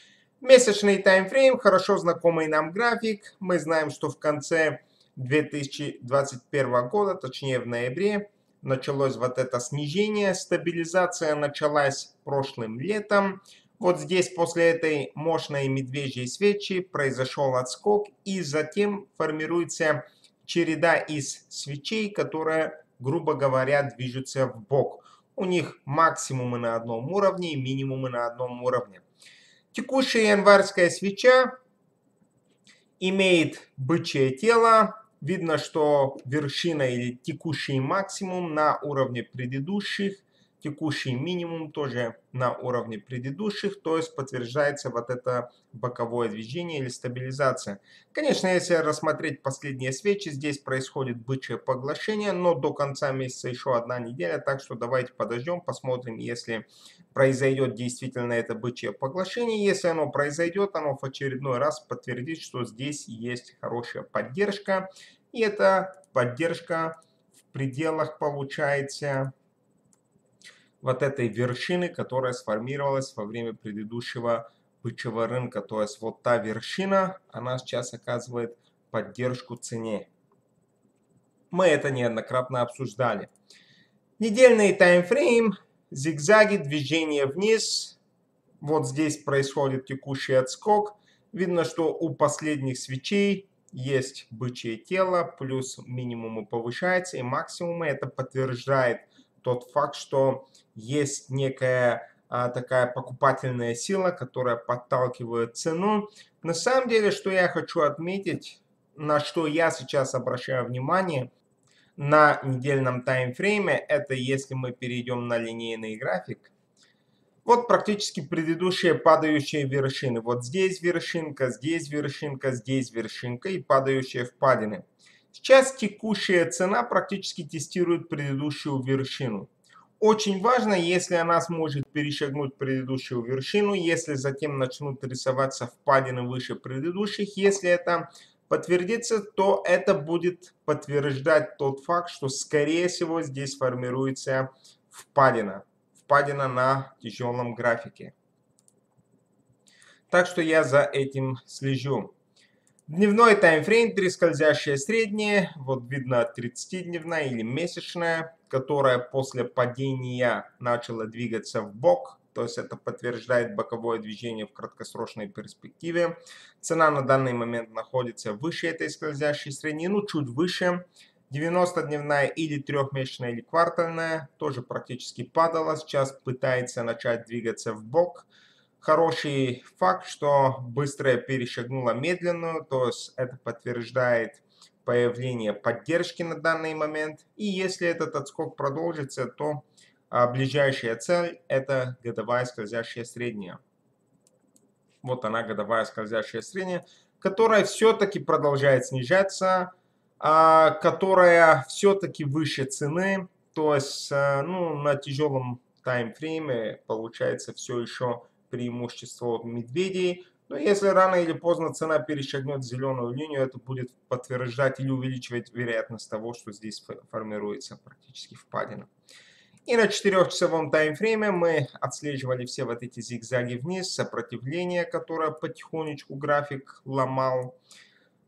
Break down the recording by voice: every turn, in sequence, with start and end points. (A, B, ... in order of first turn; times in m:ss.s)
0:00.4-0:29.0 A
0:29.7-0:31.6 A
0:33.0-1:07.0 A
1:07.5-1:09.3 A
1:10.8-1:20.1 A
1:21.5-1:23.3 A
1:24.2-1:28.0 A
1:28.6-1:51.3 A
1:52.0-1:56.5 A
1:57.4-2:28.1 A
2:30.1-2:32.1 A
2:32.9-2:58.3 A
2:58.8-3:13.6 A
3:15.0-3:38.9 A
3:39.6-3:47.6 A